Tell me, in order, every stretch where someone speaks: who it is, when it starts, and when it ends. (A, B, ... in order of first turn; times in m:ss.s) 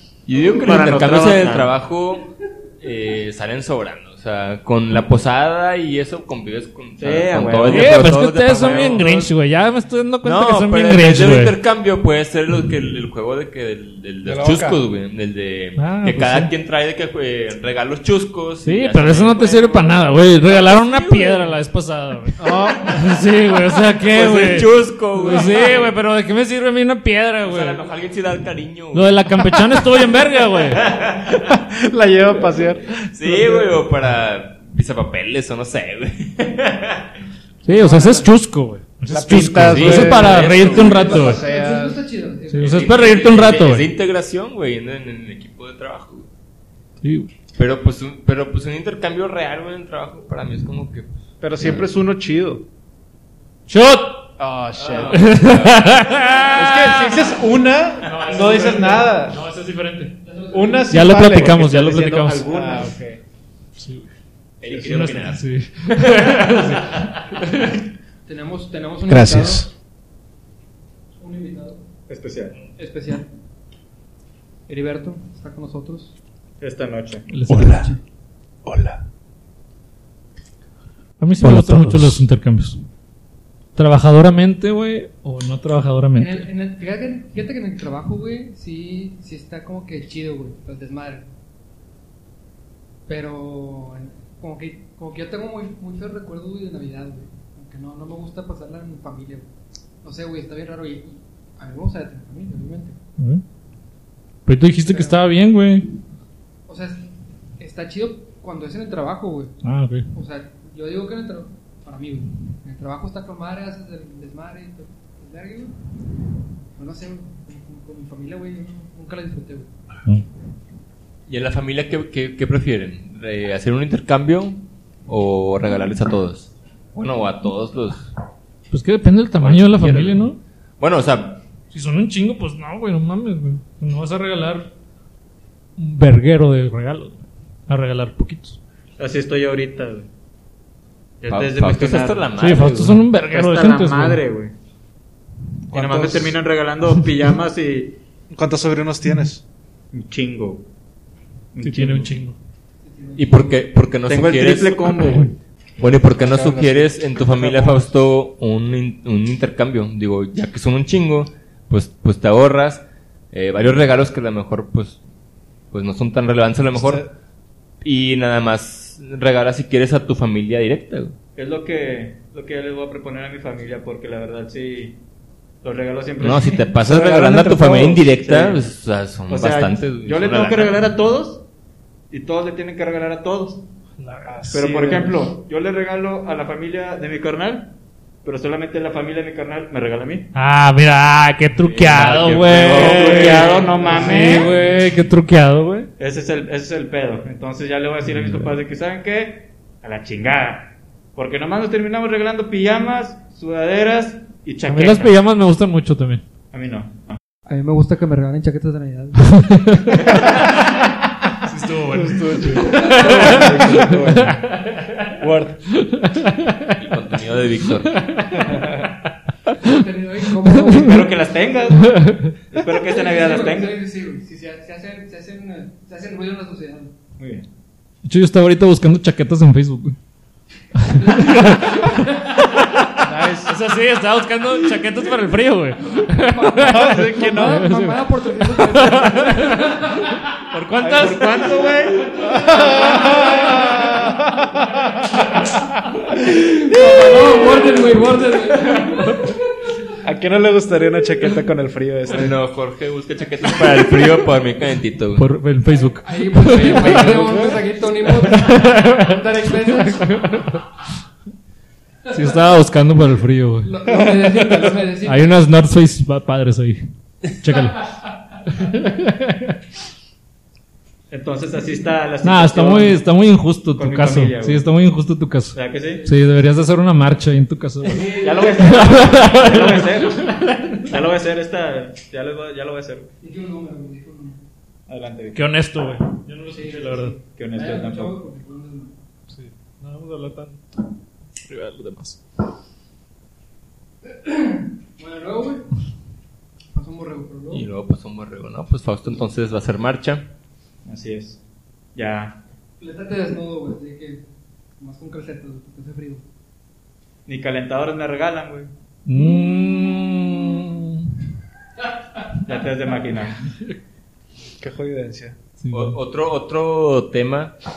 0:00.3-0:09.3 A
0:00.5-0:01.7 B
0:07.0-0:09.2 B
0:07.7-0:11.6 C
0:10.2-0:21.5 A
0:14.2-0:14.8 D
0:15.8-0:16.5 C
0:18.6-0:27.8 C
0:22.4-0:23.0 D
0:24.0-0:26.0 A
0:27.4-0:29.6 A
0:28.9-0:30.8 C
0:30.5-0:31.6 A
0:31.5-0:33.7 D
0:33.0-0:37.1 A
0:37.6-0:41.4 C
0:37.7-0:38.3 D
0:39.1-0:42.0 D
0:39.5-0:41.3 A
0:40.8-0:43.1 E
0:42.5-0:43.9 C
0:42.6-0:46.3 A
0:47.0-0:47.3 C
0:47.6-0:51.9 A
0:51.4-0:52.7 D
0:53.7-0:54.3 C
0:54.4-0:55.3 D
0:54.8-0:56.5 A
0:55.1-0:57.2 C
0:56.6-0:59.4 D
0:58.0-1:00.2 C
1:00.3-1:00.9 E
1:00.5-1:03.1 D
1:00.9-1:02.6 C
1:01.6-1:03.2 B
1:03.8-1:04.1 C
1:04.6-1:05.4 A
1:04.8-1:07.8 C
1:08.3-1:09.7 E
1:09.1-1:09.7 D
1:11.2-1:11.8 E
1:12.1-1:12.6 B
1:12.8-1:13.3 E
1:14.7-1:16.2 E
1:16.6-1:17.3 B
1:17.3-1:17.9 C
1:17.5-1:17.9 D
1:17.5-1:18.0 E
1:18.6-1:19.0 D
1:21.2-1:22.8 C
1:21.4-1:21.9 D
1:23.8-1:26.5 C
1:26.2-1:31.3 E
1:33.1-1:39.5 E
1:40.0-1:43.0 E
1:44.5-1:46.0 C
1:44.9-1:45.2 E
1:46.7-1:47.0 E
1:47.6-1:49.6 E
1:49.6-1:50.1 C
1:50.1-1:55.8 E
1:56.8-1:59.7 E
2:01.3-2:08.1 A
2:08.7-2:10.4 C
2:09.4-2:11.4 A
2:11.7-2:14.7 C
2:15.8-2:18.6 C
2:19.0-2:20.1 B
2:21.2-2:22.3 B
2:21.3-2:23.1 A
2:22.4-2:24.2 C
2:23.3-2:24.5 B
2:25.7-2:26.4 D
2:25.7-2:28.0 B
2:28.3-2:29.4 D
2:29.9-2:30.7 B
2:31.5-2:32.1 B
2:31.6-2:32.4 C
2:32.8-2:33.5 E
2:33.2-2:35.2 A
2:34.1-2:35.3 B
2:35.8-2:45.0 A
2:35.8-2:37.9 D
2:45.7-2:47.1 A
2:46.8-2:47.1 D
2:47.8-2:51.2 A
2:51.4-2:55.0 B
2:55.6-2:56.7 B
2:56.2-3:00.9 A
2:56.8-2:58.1 D
2:58.1-2:58.6 B
2:59.3-3:01.4 B
3:02.1-3:03.6 B
3:04.0-3:04.6 C
3:04.3-3:05.2 D
3:04.5-3:07.7 B
3:08.2-3:10.3 B
3:10.4-3:15.9 C
3:11.6-3:13.7 A
3:12.4-3:14.6 B
3:14.0-3:14.3 D
3:16.0-3:25.1 B
3:24.7-3:26.2 C
3:26.5-3:27.2 B
3:27.5-3:29.6 E
3:29.4-3:30.0 C
3:31.5-3:34.7 C
3:31.8-3:34.4 D
3:32.7-3:33.3 E
3:33.0-3:34.3 B
3:35.2-3:35.6 D
3:35.7-3:36.8 C
3:36.8-3:38.1 A
3:37.9-3:38.5 C
3:39.6-3:41.1 E
3:40.7-3:43.8 B
3:41.9-3:42.3 C
3:42.9-3:46.9 E
3:47.2-3:47.5 B
3:48.0-3:50.0 C
3:50.8-4:01.5 C
3:50.9-3:52.3 E
3:53.0-3:53.6 D
3:56.0-4:00.2 E
3:56.6-3:57.7 D
4:00.8-4:01.1 D
4:00.8-4:02.2 B
4:02.1-4:04.1 E
4:02.2-4:05.3 D
4:06.2-4:09.3 E
4:10.0-4:12.4 D
4:12.1-4:15.3 A
4:15.2-4:17.4 C
4:15.7-4:20.4 E
4:17.0-4:17.6 D
4:18.2-4:20.6 C
4:22.1-4:23.8 C
4:23.6-4:25.4 E
4:23.9-4:24.7 D
4:25.0-4:27.9 C
4:28.5-4:29.6 C
4:31.1-4:33.0 B
4:32.2-4:40.9 C
4:33.8-4:34.6 B
4:35.5-4:36.0 B
4:37.9-4:39.0 E
4:38.0-4:43.1 B
4:43.2-4:44.4 E
4:44.9-4:45.4 B
4:45.4-4:47.2 C
4:46.5-4:49.0 E
4:47.4-4:48.2 B
4:49.3-4:50.6 C
4:51.5-4:52.2 C
4:54.1-4:55.7 E
4:56.7-4:57.7 E
4:57.5-5:00.3 A
5:00.8-5:01.4 B
5:02.0-5:02.4 B
5:02.8-5:04.2 E
5:04.8-5:06.2 E
5:07.3-5:08.7 B
5:09.1-5:11.1 C
5:12.4-5:13.4 B
5:14.6-5:15.4 D
5:15.6-5:16.0 C
5:15.7-5:17.5 A